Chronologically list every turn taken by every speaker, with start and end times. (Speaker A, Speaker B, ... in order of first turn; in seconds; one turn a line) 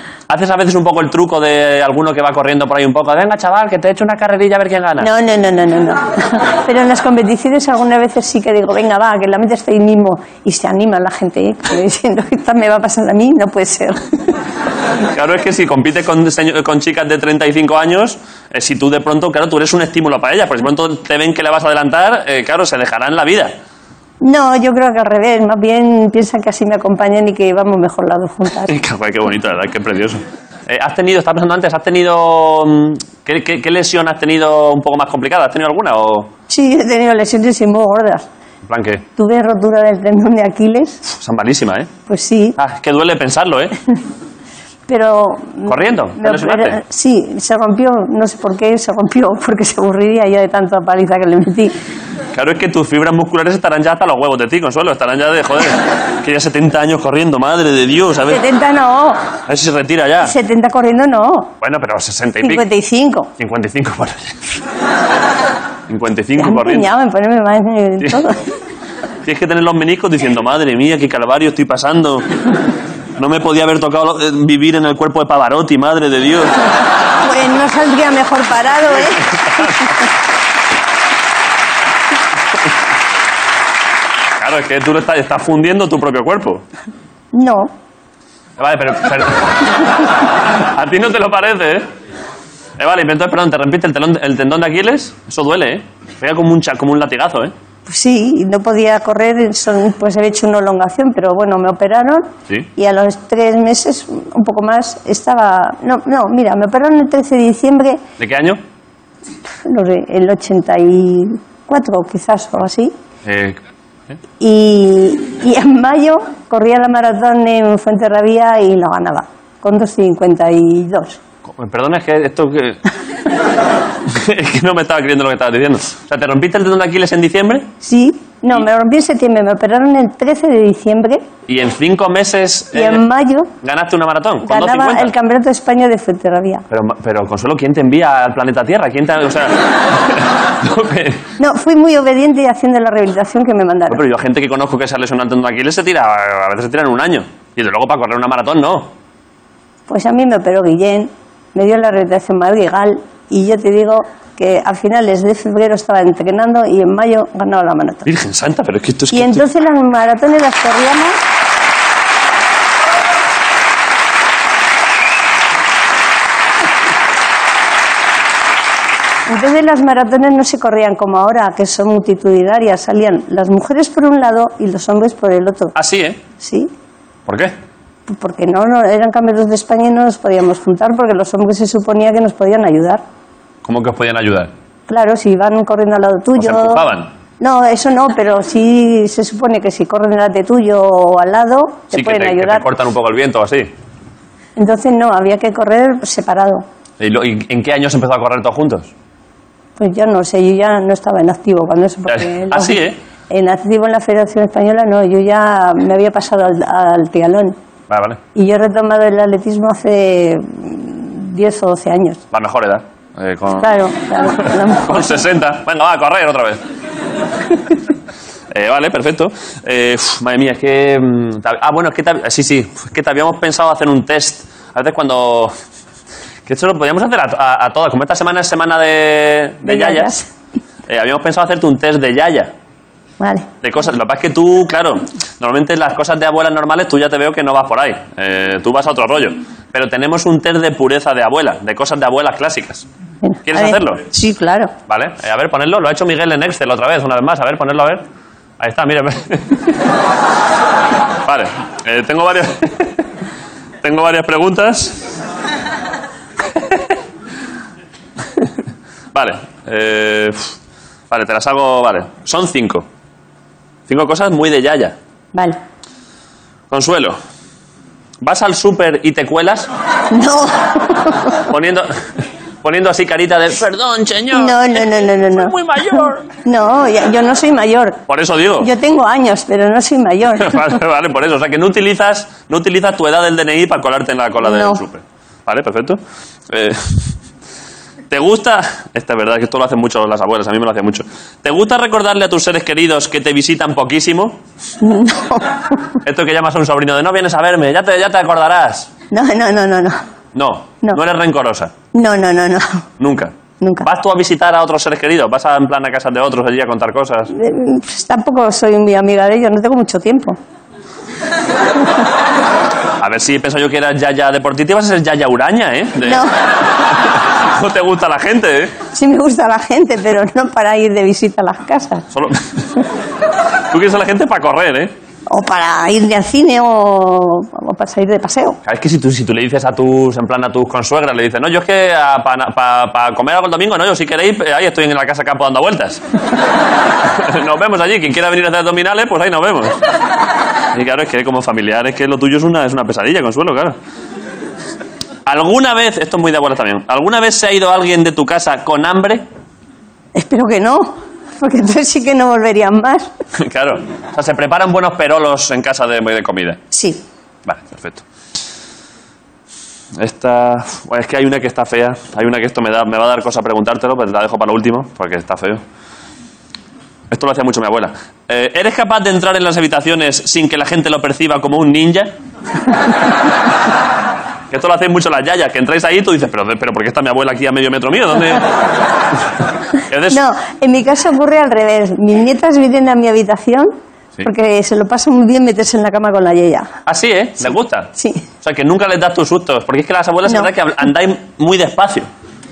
Speaker A: 0.3-5.1
Speaker B: 5.0-14.2
Speaker A: 15.1-23.5
Speaker B: 24.2-28.7
Speaker A: 28.7-36.3
Speaker B: 36.5-38.3
Speaker A: 38.6-39.0
Speaker B: 39.2-41.0
Speaker A: 41.1-41.9
Speaker B: 42.1-42.6
Speaker A: 42.6-43.7
Speaker B: 44.9-51.7
Speaker A: 45.6-46.8
Speaker A: 52.3-58.4
Speaker B: 58.3-59.2
Speaker A: 59.5-60.3
Speaker B: 60.2-61.5
Speaker A: 61.6-62.6
Speaker B: 62.4-63.3
Speaker A: 63.4-64.6
Speaker A: 65.9-66.9
Speaker B: 66.4-68.4
Speaker A: 69.2-72.3
Speaker A: 73.2-76.5
Speaker B: 77.2-79.7
Speaker A: 79.3-79.8
Speaker A: 84.4-86.6
Speaker B: 87.3-87.7
Speaker A: 88.6-91.8
Speaker A: 92.8-97.5
Speaker B: 97.9-108.0
Speaker A: 108.2-108.6
Speaker B: 109.6-112.9
Speaker A: 113.2-113.6
Speaker B: 114.4-121.2
Speaker A: 121.5-122.8
Speaker A: 124.0-127.7
Speaker B: 127.8-131.2
Speaker A: 131.5-133.0
Speaker B: 132.7-133.5
Speaker A: 133.6-135.1
Speaker B: 134.4-136.6
Speaker A: 136.7-141.2
Speaker B: 141.4-144.0
Speaker A: 143.9-148.9
Speaker B: 149.9-158.1
Speaker A: 158.1-159.4
Speaker B: 159.1-161.2
Speaker B: 169.3-175.7
Speaker A: 175.7-176.2
Speaker B: 176.4-176.7
Speaker A: 177.3-177.5
Speaker B: 178.1-183.0
Speaker A: 183.6-184.5
Speaker B: 184.9-186.8
Speaker A: 186.4-187.1
Speaker B: 187.4-192.6
Speaker A: 191.9-193.7
Speaker B: 194.6-196.6
Speaker A: 197.0-198.9
Speaker B: 199.8-207.5
Speaker A: 202.1-203.0
Speaker A: 207.9-208.2
Speaker B: 208.3-212.2
Speaker A: 212.3-213.7
Speaker B: 213.6-215.2
Speaker A: 214.8-216.6
Speaker A: 218.5-225.5
Speaker A: 226.4-230.1
Speaker B: 229.6-230.3
Speaker A: 230.9-232.5
Speaker B: 233.2-233.5
Speaker A: 233.6-242.8
Speaker B: 243.2-244.7
Speaker A: 243.4-244.0
Speaker A: 244.9-248.0
Speaker A: 248.6-249.7
Speaker A: 251.2-253.0
Speaker A: 253.8-255.0
Speaker A: 259.1-260.5
Speaker A: 261.1-262.8
Speaker A: 263.9-264.9
Speaker B: 265.3-265.6
Speaker A: 266.7-267.2
Speaker A: 268.2-269.7
Speaker B: 270.1-271.4
Speaker A: 271.5-271.9
Speaker A: 272.6-276.3
Speaker B: 274.3-275.6
Speaker B: 276.4-278.0
Speaker A: 278.1-278.7
Speaker B: 278.6-280.7
Speaker A: 280.4-286.0
Speaker B: 284.4-284.8
Speaker A: 286.5-287.1
Speaker A: 288.1-294.4
Speaker B: 294.8-295.9
Speaker A: 296.0-298.9
Speaker B: 299.1-300.0
Speaker A: 300.3-301.7
Speaker B: 301.9-302.8
Speaker A: 303.0-303.3
Speaker B: 303.6-303.9
Speaker A: 303.8-307.3
Speaker B: 307.3-310.4
Speaker A: 313.0-316.2
Speaker B: 316.0-316.3
Speaker A: 317.4-318.7
Speaker B: 318.9-322.0
Speaker A: 322.1-322.4
Speaker A: 323.7-324.9
Speaker B: 325.3-328.6
Speaker A: 328.6-336.0
Speaker A: 337.0-339.8
Speaker A: 340.7-343.7
Speaker A: 345.2-349.2
Speaker B: 350.1-353.1
Speaker A: 353.4-356.6
Speaker B: 356.7-357.0
Speaker A: 357.4-358.0
Speaker A: 360.0-365.6
Speaker A: 367.1-372.1
Speaker A: 374.5-378.5
Speaker A: 379.9-380.2
Speaker B: 380.1-386.7
Speaker A: 386.9-387.9
Speaker B: 387.9-388.3
Speaker A: 388.4-392.1